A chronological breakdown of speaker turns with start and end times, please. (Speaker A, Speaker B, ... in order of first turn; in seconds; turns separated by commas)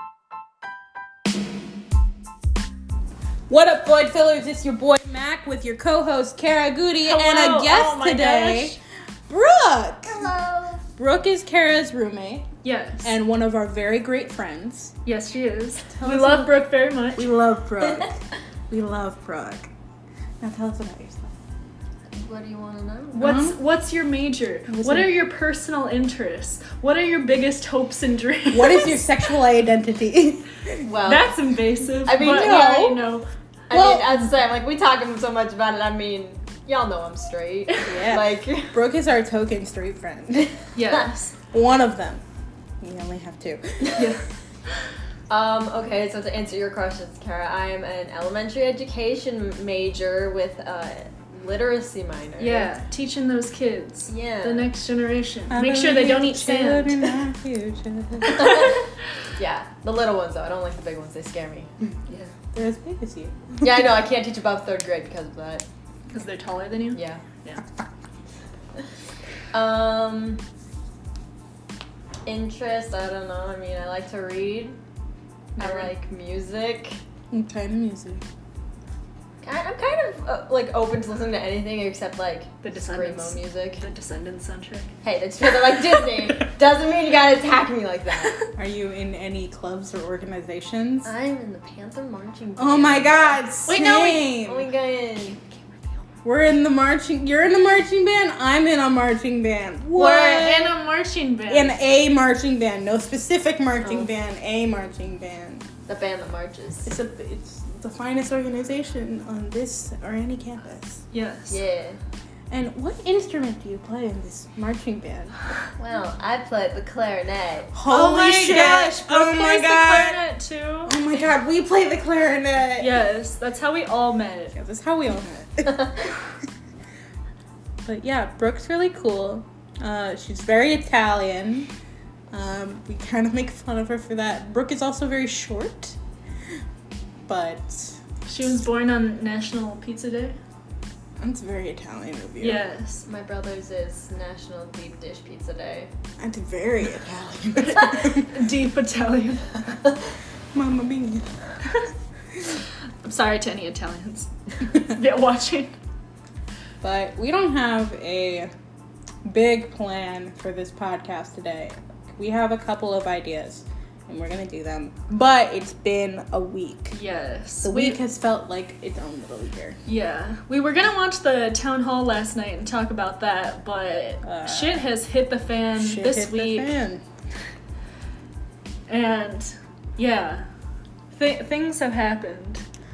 Speaker A: 3.5-8.8, Speaker B: 7.0-8.8, Speaker A: 9.3-10.3, Speaker C: 10.1-10.8, Speaker A: 11.0-12.4, Speaker B: 12.6-13.1, Speaker A: 13.0-14.9, Speaker B: 15.0-17.3, Speaker A: 15.9-18.2, Speaker A: 18.7-19.7, Speaker A: 20.4-21.3, Speaker C: 22.1-23.4, Speaker B: 23.1-29.0, Speaker A: 23.1-23.6, Speaker A: 24.7-25.2, Speaker A: 28.5-30.9, Speaker C: 30.8-31.3, Speaker B: 31.0-33.2, Speaker C: 32.0-32.8, Speaker A: 32.2-33.1, Speaker C: 33.7-38.7, Speaker A: 33.7-34.2, Speaker A: 37.9-40.5, Speaker B: 40.8-41.3, Speaker A: 41.5-42.2, Speaker A: 42.8-44.0, Speaker B: 44.0-44.2, Speaker C: 45.3-52.7, Speaker B: 52.4-57.0, Speaker C: 54.1-54.7, Speaker A: 55.5-58.7, Speaker C: 58.3-62.3, Speaker A: 62.5-63.9, Speaker C: 63.6-65.6, Speaker B: 66.1-67.6, Speaker C: 66.9-67.2, Speaker C: 69.5-70.4, Speaker C: 72.2-74.8, Speaker B: 75.6-75.9, Speaker C: 75.6-77.0, Speaker A: 77.3-78.2, Speaker C: 79.4-83.8, Speaker B: 82.6-84.9, Speaker C: 85.0-88.4, Speaker A: 88.5-91.1, Speaker C: 91.0-93.4, Speaker A: 92.6-94.7, Speaker B: 93.7-94.3, Speaker C: 94.2-95.7, Speaker A: 96.2-100.7, Speaker B: 99.9-101.8, Speaker A: 101.5-105.7, Speaker C: 103.8-104.1, Speaker C: 105.9-106.9, Speaker A: 106.8-111.0, Speaker B: 111.1-111.6, Speaker C: 111.5-112.0, Speaker A: 112.5-115.3, Speaker C: 115.8-117.7, Speaker A: 117.7-120.2, Speaker B: 117.9-121.0, Speaker A: 120.9-122.9, Speaker B: 122.8-124.5, Speaker A: 124.5-126.1, Speaker A: 127.8-131.7, Speaker A: 132.3-136.0, Speaker A: 137.3-138.0, Speaker B: 138.3-140.4, Speaker A: 141.2-142.6, Speaker B: 142.4-143.1, Speaker C: 143.1-145.9, Speaker A: 146.2-148.4, Speaker B: 147.9-149.5, Speaker A: 150.5-151.3, Speaker B: 153.1-155.7, Speaker A: 156.8-158.5, Speaker A: 159.2-167.0, Speaker B: 166.9-168.0, Speaker A: 167.6-169.8, Speaker B: 169.9-176.7, Speaker A: 174.2-174.9, Speaker A: 175.8-177.0, Speaker B: 178.9-180.5, Speaker B: 181.1-182.6